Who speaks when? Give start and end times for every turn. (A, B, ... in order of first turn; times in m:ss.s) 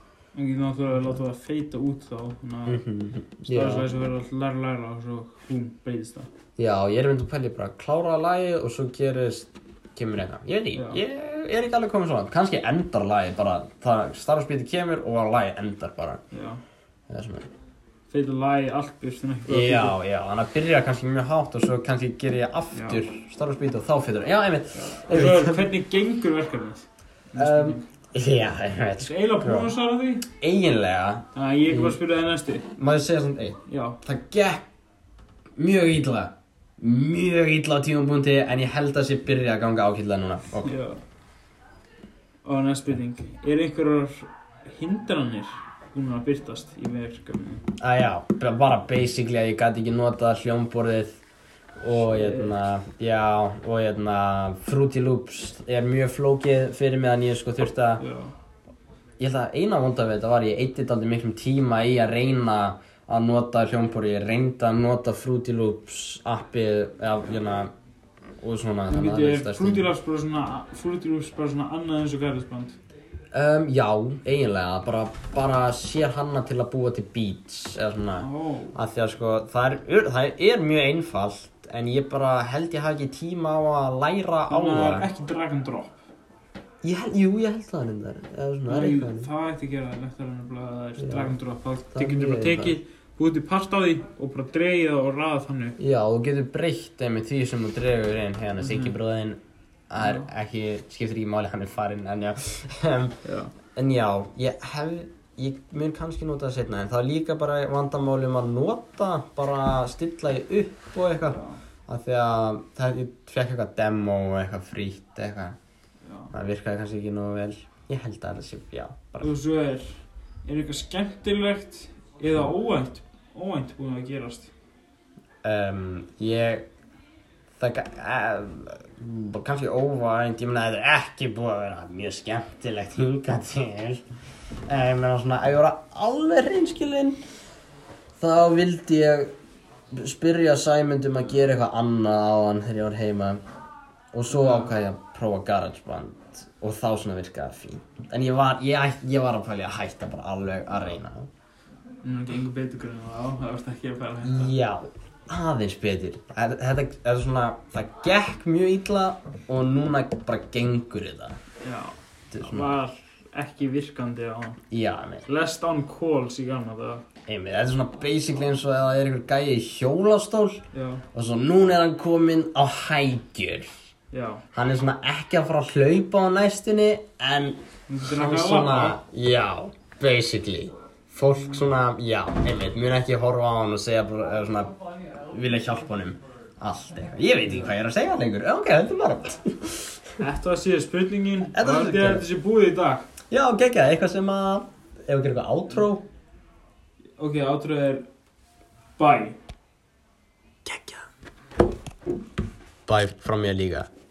0:00.3-0:02.8 A
0:02.6-0:03.9 B
0:03.5-0:06.3 A
0:06.6-0:16.2 B
0:10.7-0:11.0 A
0:16.3-0:16.6 A
0:17.1-0:17.5 B
0:18.1-0:20.0 A
0:19.5-0:25.7 B
0:22.7-0:23.0 A
0:24.8-0:27.8 A
0:27.4-0:29.7 B
0:29.0-0:30.3 A
0:30.4-0:32.0 B
0:31.3-0:32.7 A
0:32.8-0:34.6 B
0:33.7-0:34.0 A
0:35.6-0:40.7 B
0:40.6-0:41.0 A
0:42.4-0:47.6 A
0:47.8-0:51.2 B
0:51.8-0:58.0 B
0:51.9-0:52.7 A
0:58.0-0:58.3 A
0:59.2-1:07.7 B
1:08.4-1:09.9 B
1:08.9-1:12.8 A
1:13.3-1:25.1 B
1:18.2-1:18.8 A
1:24.5-1:26.0 A
1:26.8-1:29.3 B
1:28.7-1:35.8 A
1:31.0-1:31.4 B
1:31.9-1:32.8 B
1:35.8-1:43.2 B
1:38.6-1:38.9 A
1:40.0-1:40.2 A
1:43.2-1:43.5 A
1:43.7-1:55.6 B
1:51.2-1:51.6 A
1:56.1-1:56.3 A
1:56.3-1:59.3 B
1:59.2-2:04.5 A
2:05.4-2:06.6 B
2:07.6-2:14.0 B
2:14.7-2:17.2 B
2:18.2-2:19.3 B
2:19.9-2:23.4 B
2:24.1-2:31.3 B
2:24.3-2:24.7 A
2:32.0-2:34.5 A
2:34.2-2:41.4 B
2:41.6-2:44.6 A
2:42.3-2:42.7 B
2:44.7-2:45.2 B
2:45.2-2:47.0 A
2:47.2-2:53.8 B
2:50.7-2:51.0 A
2:54.1-2:54.4 A
2:54.5-3:10.1 B
2:57.9-2:59.0 A
3:10.2-3:13.0 A
3:11.5-3:12.2 B
3:13.3-3:16.0 B
3:17.2-3:18.0 A
3:19.0-3:19.4 A
3:20.6-3:21.0 B
3:22.9-3:23.9 B